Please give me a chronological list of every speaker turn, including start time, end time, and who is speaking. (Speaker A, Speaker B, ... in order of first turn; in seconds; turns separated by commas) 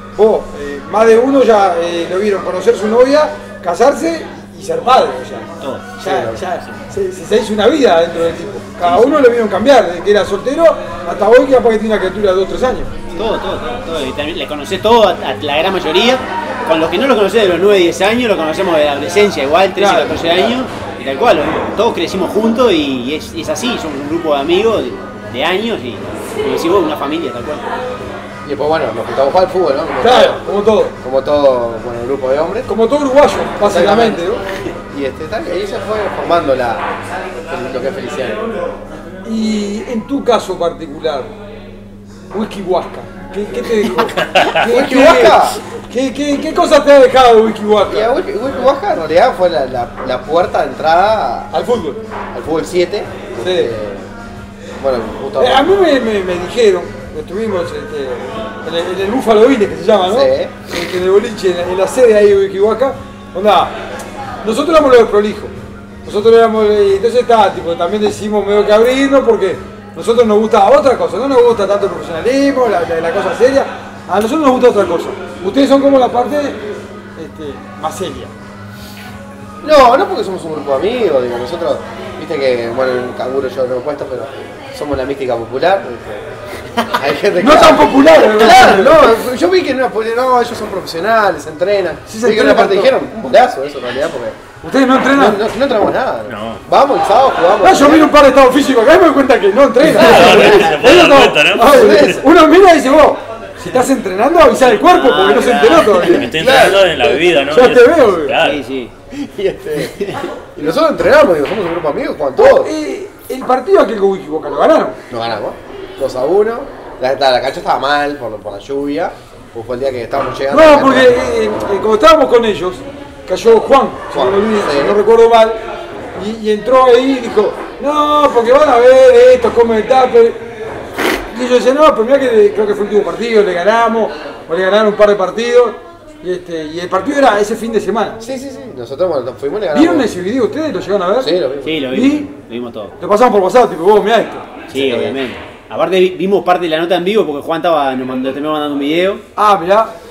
Speaker A: 0.2-5.5, Speaker B: 5.6-6.0, Speaker A: 6.0-12.9, Speaker C: 6.0-6.4, Speaker B: 8.8-9.1, Speaker B: 13.1-27.7, Speaker A: 19.8-20.5, Speaker C: 28.4-30.4, Speaker A: 30.0-31.0, Speaker C: 31.0-32.7, Speaker A: 32.7-34.4, Speaker C: 33.6-34.2, Speaker C: 34.9-36.9, Speaker C: 37.5-38.5, Speaker A: 39.2-41.3, Speaker A: 42.3-48.1, Speaker D: 44.2-44.6, Speaker C: 44.6-45.6, Speaker C: 47.9-51.5, Speaker A: 51.5-52.0, Speaker C: 52.3-54.1, Speaker A: 53.4-53.7, Speaker C: 54.8-55.7, Speaker A: 55.4-63.7, Speaker C: 60.1-60.5, Speaker A: 64.4-76.6, Speaker A: 77.2-78.3, Speaker C: 79.6-86.3, Speaker C: 86.9-94.4, Speaker A: 87.4-89.2, Speaker A: 92.1-92.9, Speaker A: 94.6-95.4, Speaker C: 95.1-98.1, Speaker D: 96.3-96.6, Speaker A: 97.6-106.7, Speaker D: 99.8-102.0, Speaker C: 101.6-102.3, Speaker B: 104.8-106.2, Speaker D: 106.0-108.6, Speaker C: 106.1-107.2, Speaker A: 107.5-108.4, Speaker B: 108.4-108.9, Speaker C: 109.2-112.7, Speaker B: 109.8-110.2, Speaker A: 112.4-115.0, Speaker C: 115.1-121.2, Speaker A: 120.5-125.6, Speaker C: 124.1-125.0, Speaker A: 126.2-130.4, Speaker A: 131.3-138.2, Speaker C: 138.2-140.1, Speaker A: 139.7-141.3, Speaker C: 141.2-141.9, Speaker B: 141.6-142.9, Speaker A: 141.9-142.3, Speaker A: 143.0-144.5, Speaker B: 144.7-149.2, Speaker C: 144.7-145.2, Speaker A: 149.4-149.9